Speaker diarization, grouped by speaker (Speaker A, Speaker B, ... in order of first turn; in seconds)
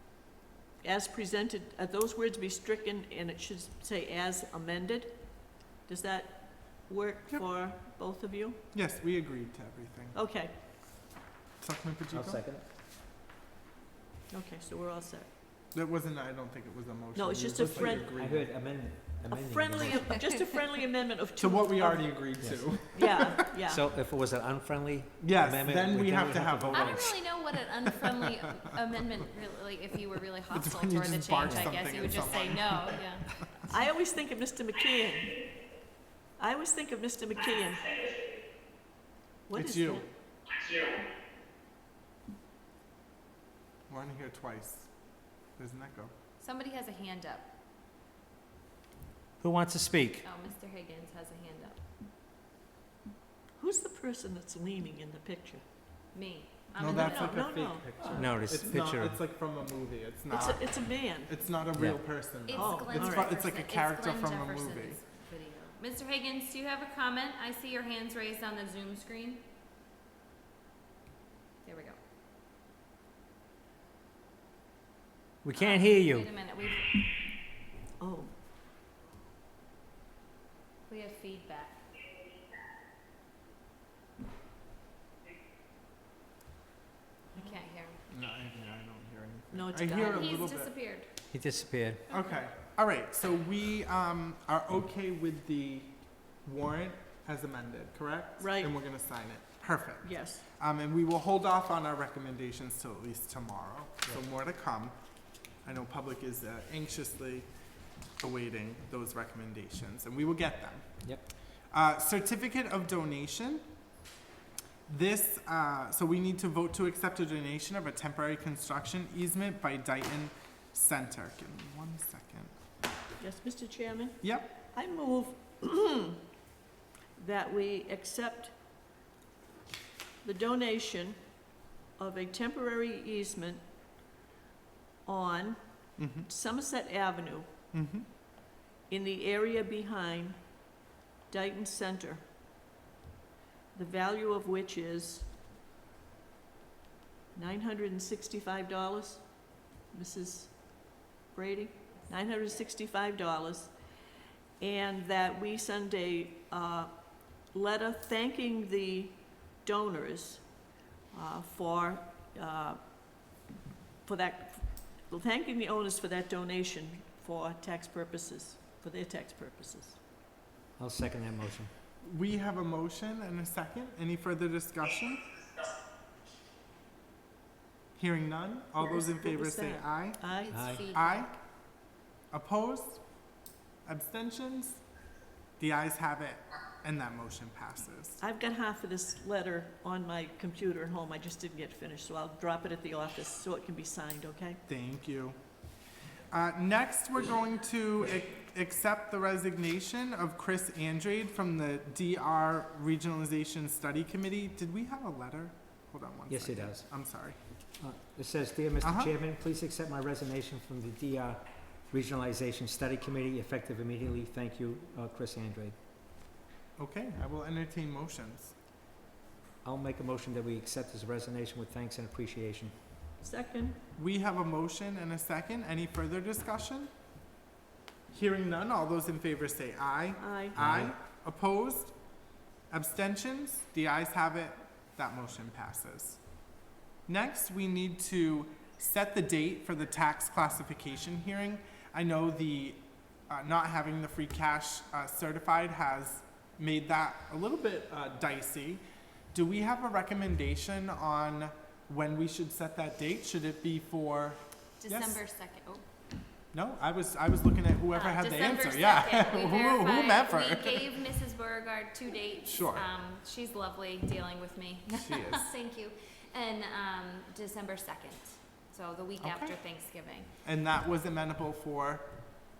Speaker A: 0.8-8.6, 10.1-10.5, 14.3-15.3, 17.1-18.1, 19.3-23.9, 33.7-35.5, 36.4-38.1, 39.5-40.1, 53.6-55.6, 56.8-58.3, 60.3-61.3, 62.5-63.3, 78.0-78.3, 89.5-90.3, 98.4-98.7, 100.0-100.4, 123.2-126.3, 127.2-128.5, 130.2-131.4, 131.9-133.6, 135.0-137.5, 138.9-140.7, 141.3-142.2, 143.7-145.3, 147.3-153.7, 154.6-162.8, 164.0-170.0, 178.8-180.8, 188.2-194.6, 223.2-223.8, 230.2-230.6
Speaker B: 8.7-10.2, 11.6-12.4, 15.7-18.5, 21.4-23.4, 25.2-27.6, 30.5-33.4, 39.5-40.0, 43.9-45.0, 45.5-46.1, 56.8-65.0, 88.1-90.7, 92.1-107.5, 108.2-113.6, 114.9-122.5, 124.2-124.5, 136.0-136.3, 137.7-138.1, 172.0-175.3, 177.9-181.3, 182.3-183.2, 183.8-184.8, 185.6-188.2, 194.7-195.4, 196.3-207.4, 208.8-209.1, 216.8-218.5, 223.9-226.9, 228.1-232.0, 232.7-236.2, 237.1-248.8, 249.3-255.2, 256.5-261.1, 262.4-262.9, 264.9-265.5, 269.2-269.6, 270.4-272.1
Speaker C: 12.1-12.6, 17.6-20.2, 22.4-27.1, 31.5-31.8, 49.4-50.2, 58.1-59.2, 61.7-62.0, 75.4-76.3, 91.3-92.0, 170.8-171.7, 180.5-180.9, 206.3-207.2, 207.8-215.8, 219.6-222.8, 230.5-230.9
Speaker D: 26.7-33.3, 46.4-47.5, 50.2-51.8, 56.1-57.4, 62.5-69.4, 71.6-72.0, 75.5-76.9, 80.9-81.8, 87.3-88.0, 89.9-91.1, 92.1-92.3, 180.5-181.4, 254.8-255.8, 257.9-270.3